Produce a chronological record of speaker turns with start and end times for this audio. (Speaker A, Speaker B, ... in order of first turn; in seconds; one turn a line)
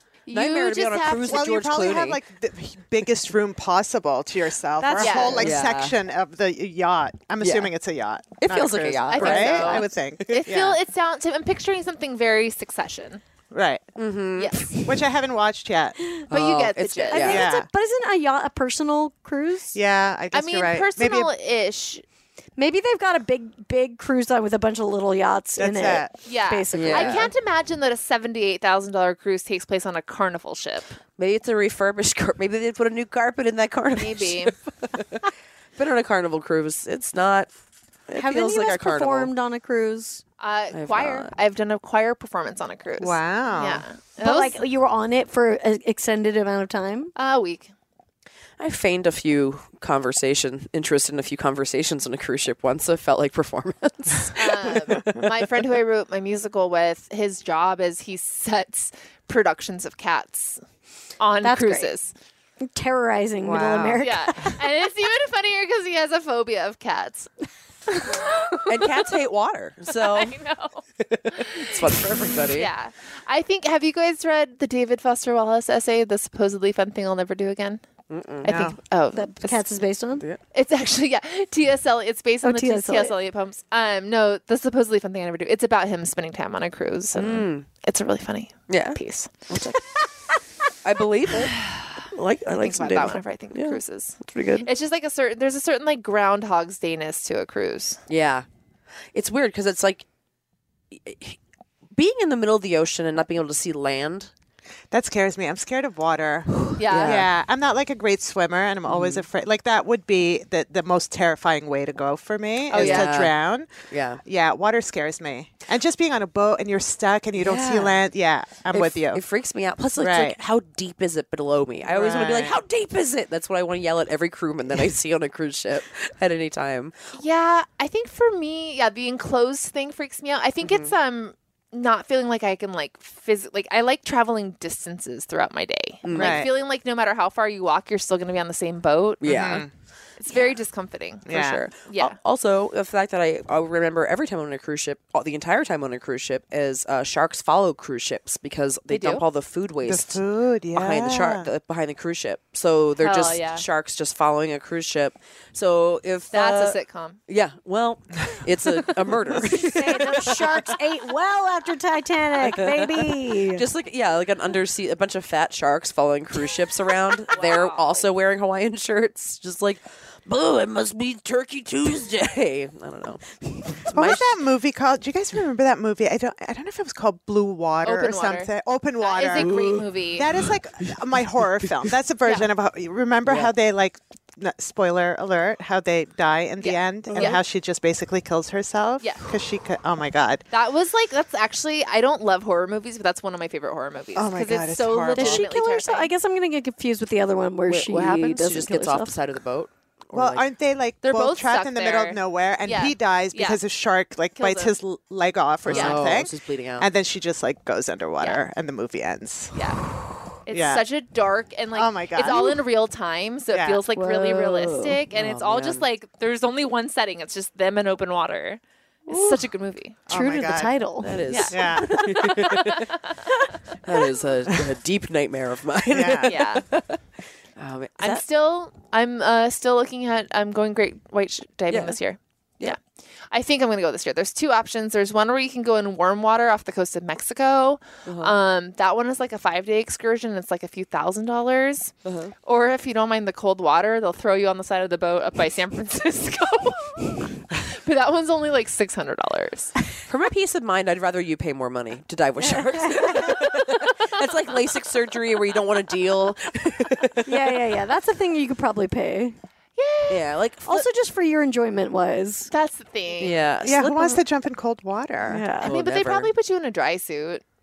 Speaker A: 0.3-1.4
Speaker B: 0.3-2.2
Speaker C: 1.3-10.8
Speaker D: 4.8-5.4
Speaker A: 5.0-5.5
Speaker B: 5.3-6.0
Speaker B: 7.4-7.7
Speaker B: 8.4-10.4
Speaker A: 9.1-13.2
Speaker C: 13.5-13.9
Speaker B: 14.0-14.7
Speaker A: 14.4-14.7
Speaker C: 14.8-16.0
Speaker B: 16.3-17.4
Speaker A: 16.3-17.3
Speaker D: 17.1-19.8
Speaker C: 17.2-17.7
Speaker C: 19.7-21.3
Speaker A: 20.3-22.0
Speaker D: 22.6-27.2
Speaker C: 25.6-26.2
Speaker A: 26.3-31.0
Speaker B: 26.7-27.3
Speaker B: 31.2-37.5
Speaker A: 34.0-34.5
Speaker B: 38.1-39.3
Speaker D: 38.2-40.2
Speaker A: 40.4-44.6
Speaker B: 40.7-41.3
Speaker C: 43.0-43.9
Speaker D: 44.2-47.1
Speaker A: 47.2-47.7
Speaker B: 48.6-55.3
Speaker A: 54.4-60.6
Speaker A: 61.2-62.1
Speaker D: 61.4-61.9
Speaker D: 62.6-64.6
Speaker B: 63.5-64.0
Speaker C: 63.6-64.0
Speaker A: 64.0-67.3
Speaker A: 67.9-69.1
Speaker B: 68.7-70.4
Speaker A: 69.9-71.9
Speaker B: 71.0-72.7
Speaker A: 72.5-77.8
Speaker B: 78.1-78.5
Speaker A: 78.4-79.7
Speaker C: 78.5-78.8
Speaker D: 79.1-80.2
Speaker A: 80.5-89.3
Speaker D: 82.4-83.1
Speaker B: 87.2-87.7
Speaker B: 88.7-89.9
Speaker B: 90.8-94.7
Speaker A: 91.4-91.7
Speaker A: 92.6-98.0
Speaker B: 98.1-98.5
Speaker B: 99.1-100.1
Speaker B: 100.9-101.4
Speaker B: 102.0-104.3
Speaker C: 104.9-113.7
Speaker A: 106.8-107.3
Speaker B: 106.8-107.3
Speaker B: 108.9-109.3
Speaker A: 112.7-113.1
Speaker B: 112.7-113.3
Speaker B: 113.9-114.2
Speaker C: 114.2-119.2
Speaker B: 117.4-118.0
Speaker B: 118.7-127.0
Speaker C: 120.0-120.4
Speaker C: 121.8-122.6
Speaker A: 127.2-139.6
Speaker B: 130.6-130.9
Speaker B: 136.1-136.4
Speaker C: 136.1-136.5
Speaker B: 139.2-139.7
Speaker C: 139.2-139.7
Speaker A: 140.2-141.3
Speaker C: 141.3-141.7
Speaker B: 141.3-150.2
Speaker A: 141.9-142.2
Speaker A: 148.9-149.2
Speaker C: 149.8-151.5
Speaker B: 150.7-156.8
Speaker A: 153.0-153.7
Speaker A: 156.3-157.2
Speaker B: 157.3-160.7
Speaker D: 159.4-163.7
Speaker B: 162.5-174.3
Speaker A: 167.3-168.0
Speaker C: 173.9-190.4
Speaker A: 177.8-180.3
Speaker B: 179.4-179.9
Speaker B: 183.2-183.5
Speaker A: 186.6-187.4
Speaker A: 190.5-196.1
Speaker C: 194.2-195.5
Speaker D: 195.1-199.2
Speaker B: 197.7-200.4
Speaker C: 200.1-209.7
Speaker A: 201.0-203.6
Speaker A: 204.4-204.8
Speaker B: 205.7-206.9
Speaker A: 205.7-206.0
Speaker A: 209.6-209.8
Speaker A: 210.4-220.0
Speaker C: 210.5-210.9
Speaker C: 211.7-212.6
Speaker C: 213.5-213.8
Speaker D: 213.9-215.0
Speaker B: 215.1-215.8
Speaker C: 220.1-220.8
Speaker D: 220.1-221.1
Speaker B: 221.0-222.9
Speaker A: 221.3-221.6
Speaker C: 221.5-222.1
Speaker D: 221.8-222.4
Speaker B: 223.8-227.0
Speaker C: 225.9-226.3
Speaker A: 226.3-226.7
Speaker B: 227.6-228.2
Speaker A: 228.0-232.8
Speaker B: 231.7-232.0
Speaker A: 233.3-241.9
Speaker B: 238.1-238.3
Speaker B: 242.1-242.3
Speaker A: 242.4-249.8
Speaker B: 250.1-257.6
Speaker D: 252.9-253.2
Speaker D: 257.2-259.4
Speaker A: 259.8-260.3
Speaker B: 260.1-260.9
Speaker D: 260.7-262.5
Speaker A: 262.5-263.4
Speaker B: 263.2-264.2
Speaker C: 263.6-265.5
Speaker D: 265.3-265.7
Speaker B: 265.6-266.3
Speaker A: 265.6-267.4